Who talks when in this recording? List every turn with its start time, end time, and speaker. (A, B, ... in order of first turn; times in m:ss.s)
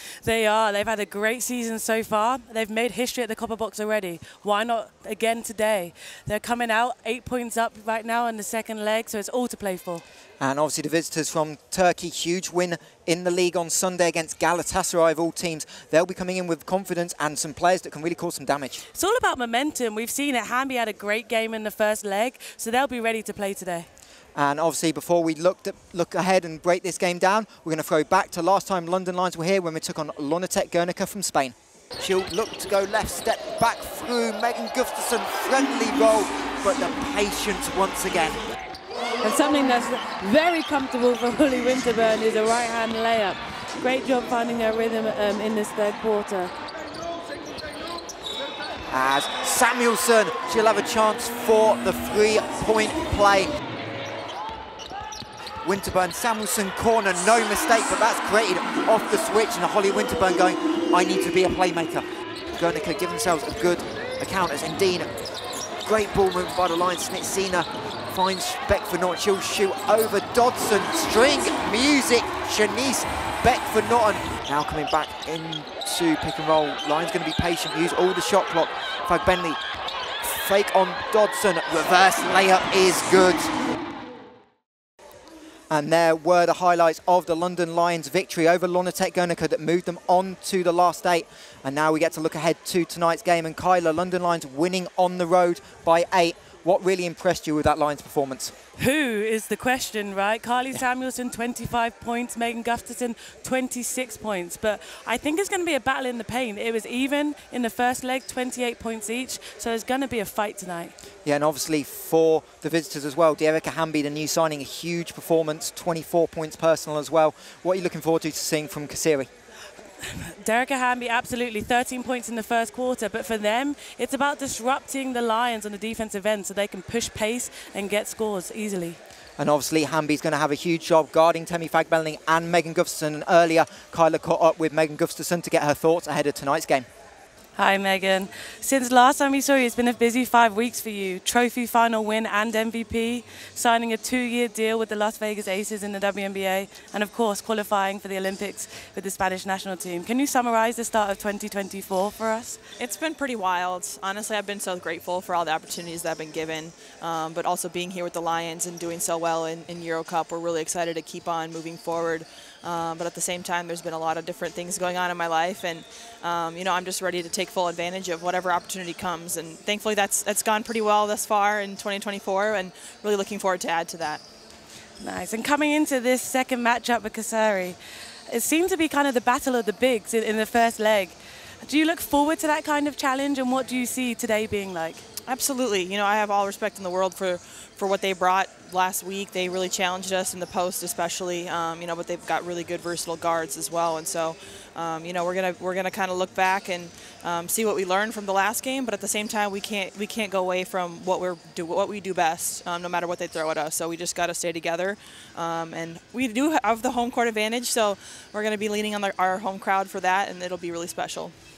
0:00.2-0:10.0 A
0:10.4-0:18.8 B
0:18.9-0:23.9 A
0:24.3-0:38.4 B
0:39.2-0:46.5 A
0:48.9-0:53.5 B
0:55.6-1:02.0 B
1:02.6-1:05.1 B
1:05.8-1:19.6 B
1:20.2-1:23.5 B
1:25.7-1:38.5 B
1:38.8-1:50.9 A
1:51.2-1:59.3 B
2:00.0-2:09.0 A
2:09.4-2:16.9 B
2:17.6-2:32.6 A
2:32.8-2:54.2 C
2:55.0-2:57.8 A
2:58.3-3:05.0 A
3:05.3-3:31.3 C